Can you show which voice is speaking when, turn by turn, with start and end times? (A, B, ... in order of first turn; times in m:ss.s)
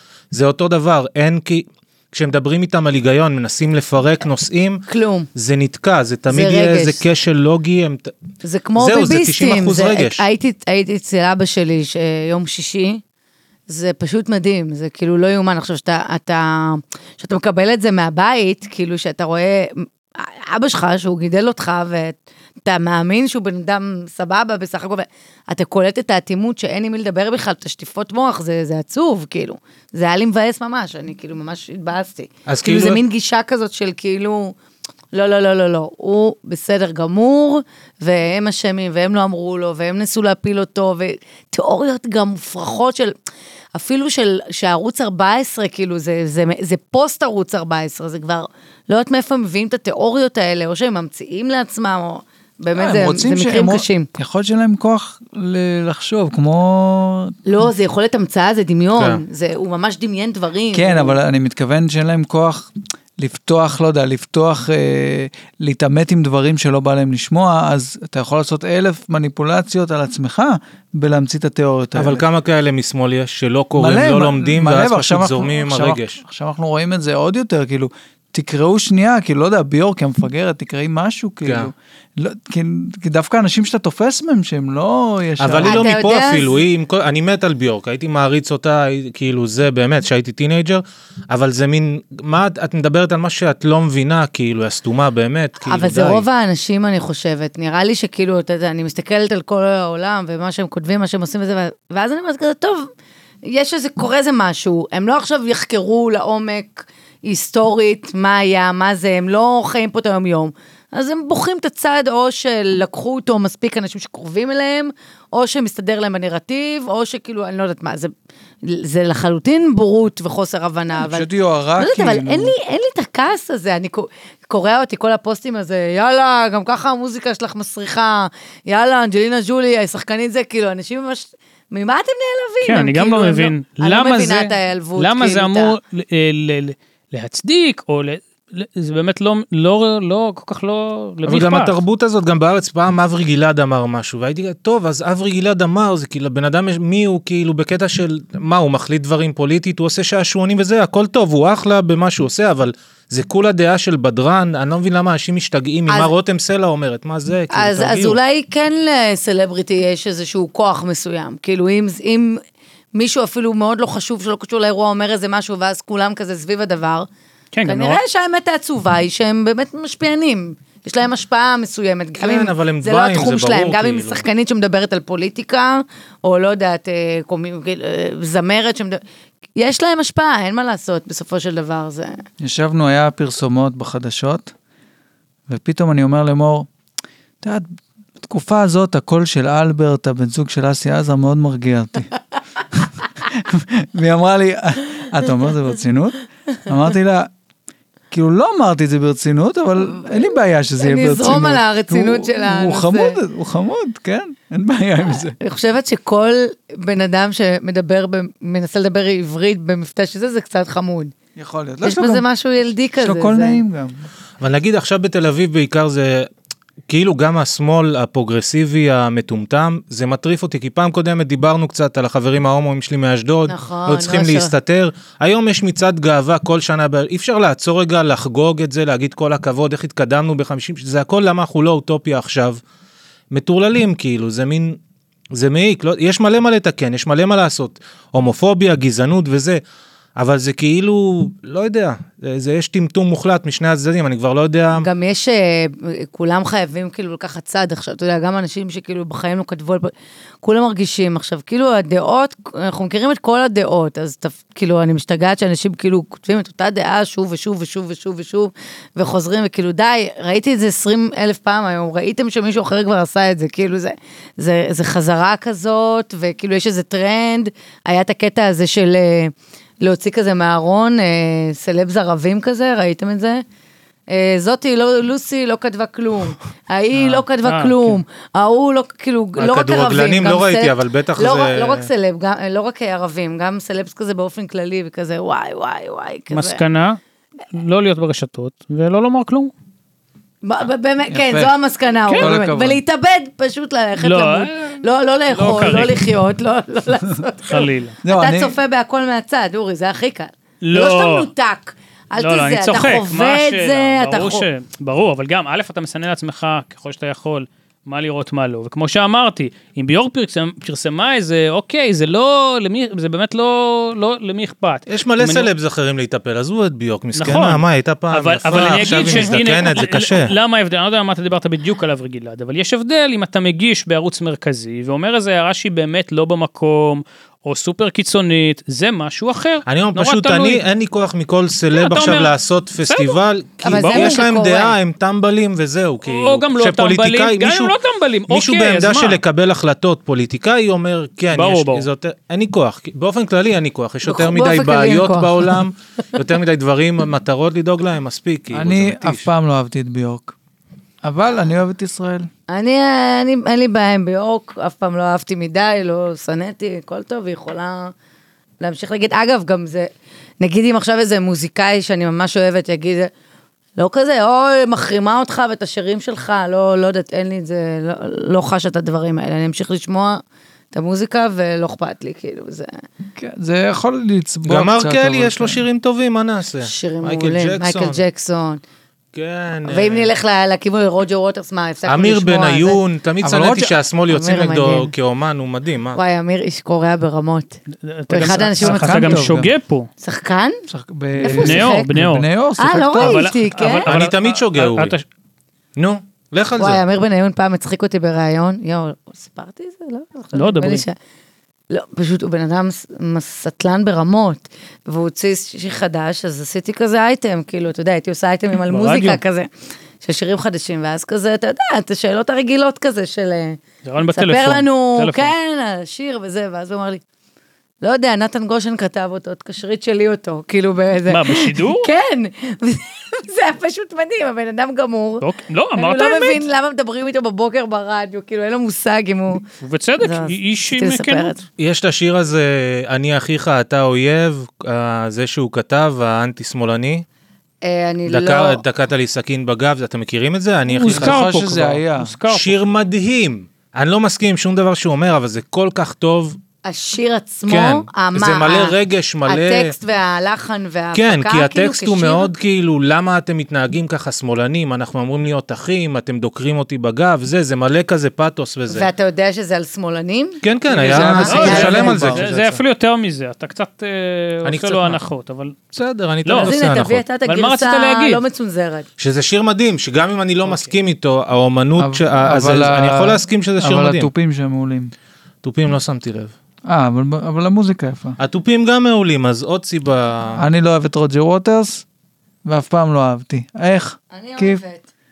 0:00.3-0:04.8 A
0:04.9-0:05.3 B
0:05.4-0:08.1 A
0:06.3-0:07.0 B
0:08.4-0:13.0 B
0:08.8-0:10.2 A
0:13.7-0:34.6 B
0:32.5-0:33.0 A
0:35.1-0:43.1 B
0:43.7-0:54.1 B
0:52.8-0:57.4 C
0:57.5-1:01.2 B
0:59.0-0:59.2 A
1:00.7-1:12.2 C
1:12.0-1:16.2 A
1:13.8-1:25.9 C
1:21.5-1:21.7 A
1:25.4-1:36.2 A
1:25.6-1:26.6 B
1:35.6-1:42.9 B
1:43.5-1:58.1 B
1:58.6-2:15.8 B
2:01.0-2:02.5 C
2:12.6-2:21.8 D
2:21.2-2:38.2 A
2:37.5-2:42.4 B
2:43.0-2:47.1 B
2:47.5-2:48.0 D
2:47.6-2:59.0 B
2:52.2-2:54.2 A
2:59.6-3:02.2 B
3:02.4-3:04.5 C
3:05.5-3:06.7 C
3:07.4-3:07.7 C
3:08.2-3:12.1 C
3:12.7-3:17.3 C
3:18.1-3:25.4 C
3:20.8-3:23.2 B
3:25.4-3:31.1 B
3:31.4-3:32.2 C
3:31.8-3:33.6 B
3:33.0-3:34.1 C
3:34.4-3:36.3 A
3:36.9-3:52.6 A
3:43.5-3:44.5 B
3:53.3-3:54.8 A
3:55.3-3:59.6 A
4:00.2-4:04.9 A
4:04.8-4:33.4 B
4:34.1-4:46.6 B
4:36.9-4:38.0 D
4:39.4-4:41.9 A
4:46.3-4:47.0 D
4:47.5-4:49.5 D
4:50.4-5:04.5 B
4:51.1-4:51.5 C
4:52.1-4:52.8 C
4:54.0-4:56.0 D
4:57.5-4:58.0 D
4:58.0-4:58.6 C
5:00.6-5:01.3 D
5:02.2-5:15.5 D
5:14.9-5:20.3 A
5:17.2-5:30.6 D
5:18.9-5:19.1 B
5:29.7-5:37.7 A
5:31.7-5:32.3 D
5:32.8-5:34.2 D
5:33.6-5:34.8 B
5:36.0-5:39.2 D
5:38.3-5:49.3 A
5:41.3-5:41.9 D
5:44.1-5:45.6 B
5:48.5-5:50.4 C
5:51.0-5:52.3 C
5:52.5-5:57.9 B
5:58.6-5:59.9 B
6:00.4-6:03.1 B
6:03.8-6:10.2 B
6:10.7-6:12.7 B
6:13.2-6:15.6 C
6:14.5-6:18.0 A
6:16.6-6:18.6 B
6:19.1-6:20.1 A
6:19.6-6:22.8 B
6:21.8-6:26.0 A
6:23.2-6:23.8 C
6:24.1-6:24.9 B
6:25.9-6:27.6 B
6:27.8-6:29.9 D
6:28.1-6:29.3 B
6:28.2-6:29.5 C
6:30.0-6:30.6 B
6:30.7-6:33.4 C
6:31.2-6:31.9 B
6:31.2-6:32.3 D
6:32.6-6:33.9 B
6:32.9-6:35.0 D
6:33.8-6:35.0 A
6:35.8-6:36.8 A
6:36.6-6:41.0 B
6:40.3-6:40.8 D
6:41.7-6:49.5 B
6:48.6-6:49.2 D
6:50.0-6:53.6 B
6:53.8-6:55.3 D
6:54.1-6:57.0 B
6:57.8-7:09.4 B
7:01.1-7:01.9 D
7:05.2-7:06.4 D
7:09.6-7:11.3 D
7:10.0-7:11.4 B
7:11.6-7:17.0 A
7:17.6-7:18.6 B
7:18.1-7:26.4 A
7:20.7-7:22.6 D
7:20.8-7:22.1 C
7:26.6-7:32.3 B
7:27.5-7:29.7 A
7:30.9-7:38.9 A
7:38.7-7:41.9 B
7:40.4-7:42.6 A
7:40.7-7:42.2 C
7:41.2-7:45.6 D
7:44.4-7:45.0 A
7:45.7-7:47.0 A
7:46.2-7:46.6 D
7:46.4-7:48.9 B
7:47.2-7:48.2 D
7:49.0-7:54.1 A
7:50.4-7:50.7 D
7:51.8-7:54.9 C
7:55.4-7:56.3 A
7:56.7-7:58.2 C
7:58.2-8:00.5 A
8:00.4-8:01.8 C
8:02.4-8:04.6 C
8:04.1-8:04.9 B